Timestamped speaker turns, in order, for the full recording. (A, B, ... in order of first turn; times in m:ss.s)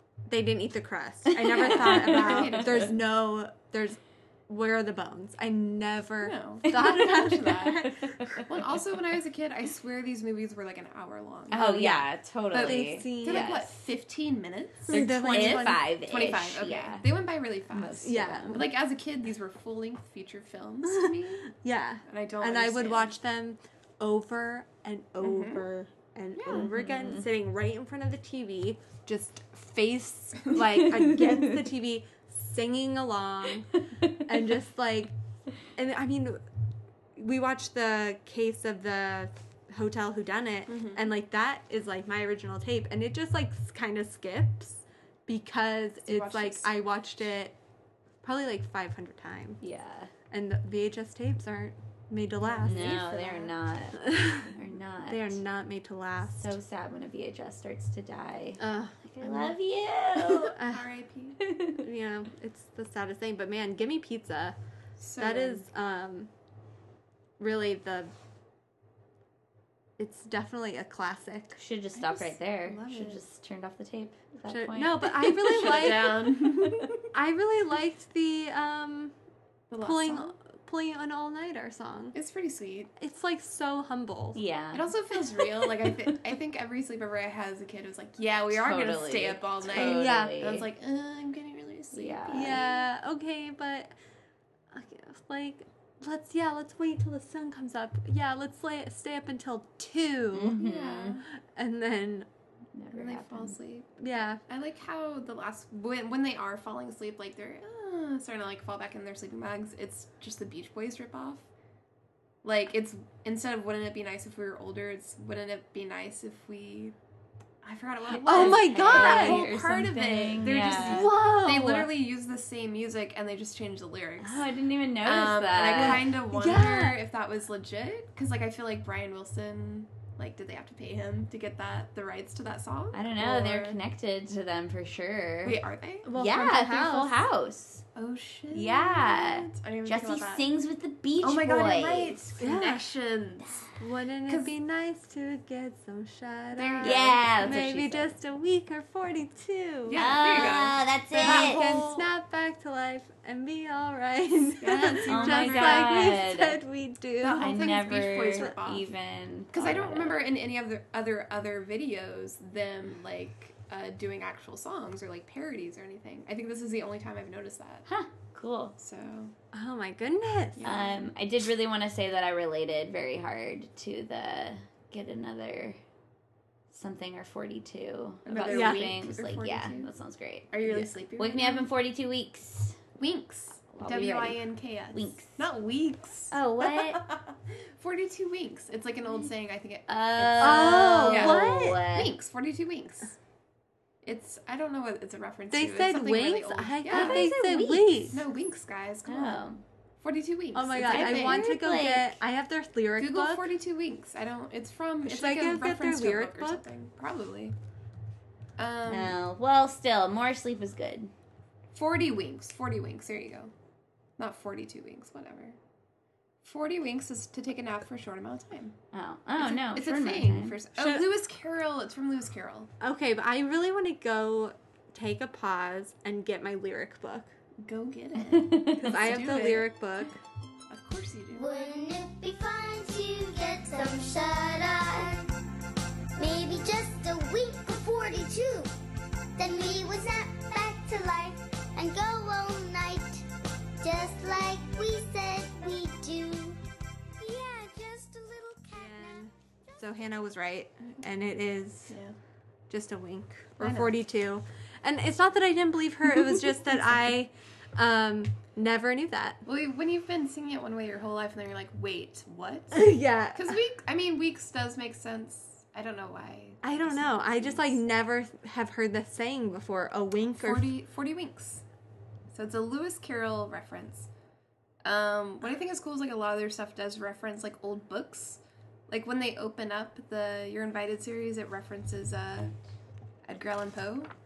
0:00.3-0:08.4 A
0:01.3-0:02.8 B
0:01.7-0:03.0 C
0:06.2-0:11.8 C
0:07.8-0:08.4 B
0:11.5-0:13.7 B
0:11.6-0:13.5 A
0:12.5-0:21.5 C
0:14.9-0:15.8 A
0:14.9-0:17.0 B
0:17.7-0:18.5 B
0:18.0-0:18.6 A
0:20.8-0:35.1 A
0:22.1-0:23.1 C
0:25.2-0:25.6 C
0:26.4-0:26.7 C
0:26.6-0:27.2 B
0:30.8-0:31.5 B
0:34.0-0:34.2 B
0:35.8-0:36.4 A
0:37.2-0:47.6 A
0:40.7-0:41.0 C
0:46.0-0:46.7 C
0:48.2-0:49.6 A
0:49.6-0:50.1 B
0:50.3-0:53.0 A
0:52.4-0:53.5 C
0:52.6-0:55.4 B
0:54.0-0:54.5 A
0:55.1-0:56.5 A
0:56.4-1:00.6 B
0:58.6-0:59.6 A
1:00.3-1:01.4 C
1:00.5-1:00.9 A
1:01.4-1:01.8 B
1:01.8-1:04.6 A
1:05.0-1:05.6 C
1:05.2-1:06.3 A
1:07.4-1:08.1 A
1:10.0-1:11.6 A
1:11.6-1:15.9 B
1:12.0-1:13.2 C
1:14.5-1:16.4 A
1:15.2-1:17.1 C
1:17.1-1:19.1 A
1:19.7-1:20.3 C
1:19.8-1:22.2 A
1:22.1-1:22.9 C
1:23.0-1:24.4 A
1:24.3-1:24.9 B
1:24.7-1:32.8 C
1:28.5-1:30.7 B
1:29.7-1:30.4 A
1:31.9-1:32.6 B
1:32.3-1:33.9 A
1:34.7-1:40.6 A
1:40.3-1:41.2 B
1:40.5-1:41.2 C
1:41.4-1:42.3 A
1:42.7-1:43.6 B
1:42.9-1:51.5 C
1:44.0-1:44.4 A
1:52.4-1:56.9 C
1:57.6-2:04.5 C
1:58.1-2:01.1 B
1:58.2-1:59.5 A
2:00.6-2:01.9 A
2:04.2-2:06.1 B
2:05.0-2:13.8 C
2:05.7-2:07.0 A
2:12.9-2:15.6 B
2:15.4-2:16.1 C
2:16.0-2:17.2 A
2:16.1-2:17.8 B
2:17.9-2:20.4 C
2:18.5-2:22.2 B
2:21.2-2:23.7 C
2:22.4-2:22.8 A
2:23.8-2:30.5 A
2:26.5-2:27.5 C
2:26.8-2:28.1 B
2:29.8-2:32.0 C
2:29.9-2:31.6 B
2:31.2-2:37.5 A
2:34.6-2:36.1 C
2:35.1-2:36.6 B
2:37.2-2:38.9 C
2:37.4-2:40.2 B
2:39.5-2:47.9 C
2:47.9-2:48.7 B
2:48.8-2:49.3 C
2:49.5-2:50.6 A
2:50.6-2:51.1 C
2:50.6-2:55.8 B
2:56.7-3:02.8 B
2:58.2-2:59.9 C
2:58.5-2:58.9 A
3:00.5-3:01.7 C
3:03.0-3:13.2 C
3:03.7-3:04.4 B
3:04.9-3:05.4 B
3:06.3-3:07.0 B
3:09.9-3:12.1 B
3:10.4-3:11.8 A
3:14.0-3:17.3 C
3:15.5-3:18.2 A
3:16.9-3:18.1 B
3:18.1-3:19.5 C
3:19.0-3:19.6 B
3:20.0-3:21.5 C
3:20.5-3:23.5 A
3:20.8-3:22.2 B
3:23.0-3:27.5 C
3:25.0-3:26.6 A
3:28.6-3:29.2 C
3:28.9-3:31.1 B
3:31.7-3:33.5 C
3:34.2-3:35.6 C
3:36.4-3:38.8 C
3:38.9-3:40.6 B
3:39.4-3:42.7 C
3:40.8-3:41.0 A
3:42.8-3:47.3 A
3:47.6-3:49.7 C
3:48.3-3:48.9 B
3:48.8-3:50.2 A
3:50.7-3:51.7 C
3:51.3-3:55.3 D
3:56.2-3:58.7 D
3:59.4-4:03.3 D
4:03.8-4:06.6 D
4:07.2-4:09.8 D
4:08.8-4:12.0 A
4:11.9-4:12.2 C
4:12.7-4:19.4 A
4:13.6-4:14.0 C
4:19.4-4:27.8 C
4:22.7-4:23.6 A
4:26.6-4:30.7 A
4:30.4-4:31.6 C
4:32.3-4:34.1 C
4:34.8-4:42.5 C
4:43.2-4:44.1 C